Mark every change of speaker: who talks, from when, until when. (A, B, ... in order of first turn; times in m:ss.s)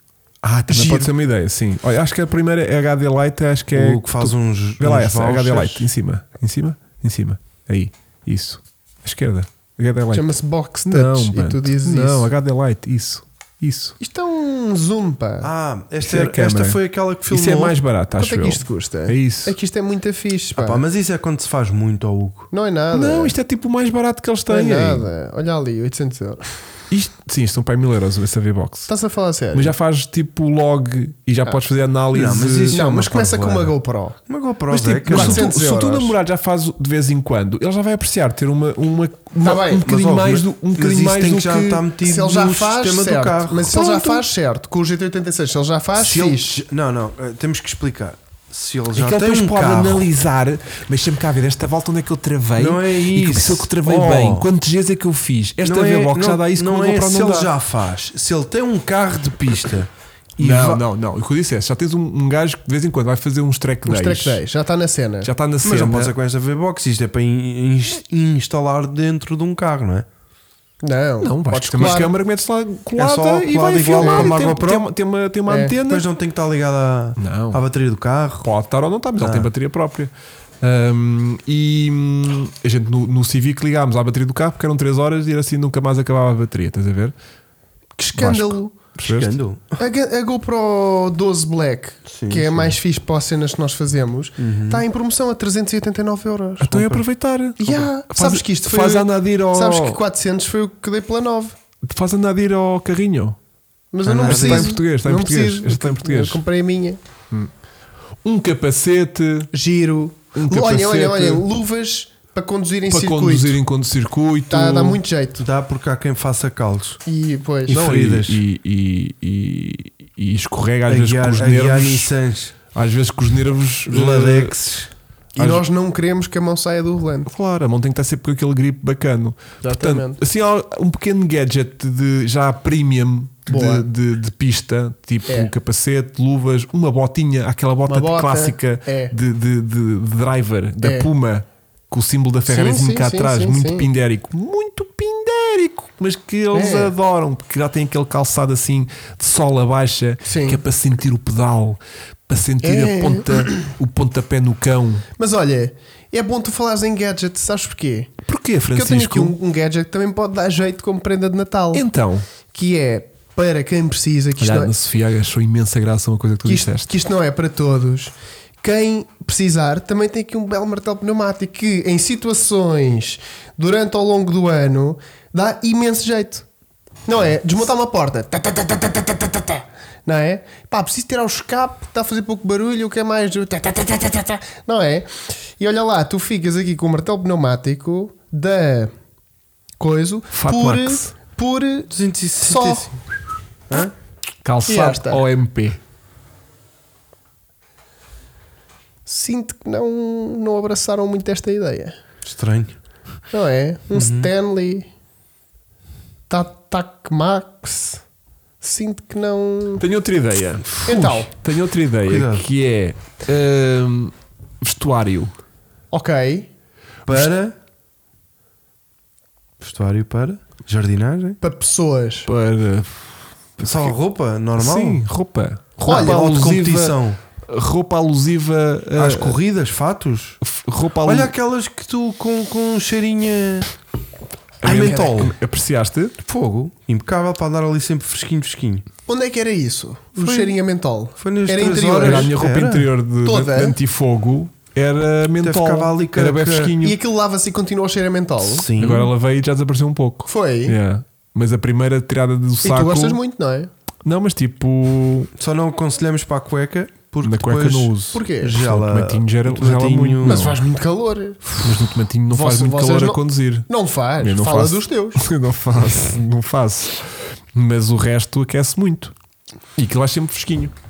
0:00.4-0:13.9 A
0:00.7-0:01.1 B
0:03.7-0:05.9 C
0:10.1-0:12.3 B
0:14.0-0:15.5 B
0:15.4-0:17.8 C
0:16.0-0:19.5 A
0:18.2-0:20.8 B
0:20.5-0:22.5 C
0:22.5-0:23.3 B
0:22.9-0:25.1 A
0:24.5-0:26.4 B
0:26.9-0:28.9 A
0:28.9-0:29.7 B
0:29.5-0:32.8 A
0:32.1-0:33.7 C
0:32.7-0:34.2 B
0:34.3-0:35.4 C
0:34.7-0:41.8 A
0:35.1-0:36.2 B
0:39.4-0:39.8 B
0:39.8-0:44.2 C
0:42.0-0:46.6 B
0:46.0-0:50.1 C
0:48.9-0:57.5 A
0:52.6-0:54.5 C
0:55.6-1:00.8 C
1:00.4-1:04.4 A
1:03.8-1:05.3 B
1:05.2-1:06.1 A
1:05.6-1:10.0 C
1:10.8-1:12.1 B
1:11.2-1:16.1 A
1:13.0-1:14.8 C
1:14.0-1:14.3 B
1:15.5-1:15.7 B
1:15.9-1:18.5 C
1:17.2-1:17.6 A
1:18.4-1:27.1 A
1:19.2-1:19.5 C
1:28.0-1:28.7 B
1:28.1-1:29.3 A
1:29.0-1:29.8 C
1:29.8-1:37.0 B
1:32.0-1:32.8 C
1:34.4-1:34.8 C
1:36.6-1:40.0 A
1:37.6-1:41.5 B
1:41.8-1:43.4 A
1:43.9-1:47.0 B
1:44.0-1:44.8 C
1:44.1-1:46.4 A
1:48.2-1:49.5 A
1:49.5-1:53.6 B
1:50.3-1:51.5 A
1:52.9-1:55.0 A
1:54.5-1:55.4 B
1:55.4-1:57.0 C
1:57.0-1:57.8 B
1:57.7-1:58.4 C
1:57.7-2:02.1 A
2:00.9-2:02.5 C
2:02.7-2:04.6 A
2:03.9-2:04.9 C
2:05.4-2:07.3 B
2:05.4-2:05.6 A
2:07.3-2:35.0 A
2:09.6-2:10.2 B
2:13.5-2:13.9 B
2:15.3-2:15.5 B
2:17.9-2:19.1 B
2:20.8-2:21.1 B
2:22.5-2:23.9 B
2:26.5-2:26.9 B
2:30.2-2:30.6 B
2:32.6-2:33.7 B
2:35.2-2:38.1 B
2:38.2-2:39.4 A
2:38.7-2:41.8 B
2:41.7-2:42.3 A
2:42.5-2:44.7 B
2:44.4-2:46.9 A
2:46.4-2:56.4 B
2:57.1-3:08.9 B
3:09.8-3:11.9 B
3:10.3-3:11.1 A
3:11.9-3:13.0 C
3:12.4-3:12.9 B
3:14.4-3:15.8 A
3:14.7-3:15.2 B
3:19.0-3:22.0 B
3:22.2-3:22.8 C
3:23.3-3:24.9 B
3:23.9-3:24.3 C
3:26.3-3:28.0 B
3:28.6-3:29.8 B
3:29.8-3:35.3 A
3:30.7-3:31.2 C
3:30.8-3:31.3 B
3:32.0-3:32.4 C
3:35.9-3:36.5 B
3:37.1-3:37.5 C
3:39.6-3:41.4 C
3:41.4-3:42.3 B
3:42.2-3:43.9 A
3:43.6-3:45.0 C
3:44.6-3:49.4 A
3:45.8-3:46.2 B
3:45.8-3:47.2 C
3:49.0-3:50.4 C
3:50.4-3:51.3 A
3:51.0-3:53.7 C
3:54.6-3:55.3 B
3:54.6-3:56.2 A
3:56.2-3:58.8 C
3:59.1-4:02.4 B
4:00.2-4:00.6 C
4:01.2-4:02.9 C
4:02.0-4:07.0 A
4:03.2-4:03.8 B
4:05.4-4:06.8 C
4:06.8-4:08.7 B
4:08.4-4:09.1 C
4:08.8-4:13.2 A
4:10.3-4:10.8 B
4:12.6-4:13.7 B
4:14.0-4:15.3 A
4:15.4-4:20.6 C
4:17.2-4:20.6 A
4:18.1-4:18.5 B
4:20.2-4:21.6 B
4:21.6-4:23.7 A
4:22.3-4:25.2 B
4:24.2-4:29.1 A
4:29.8-4:30.7 A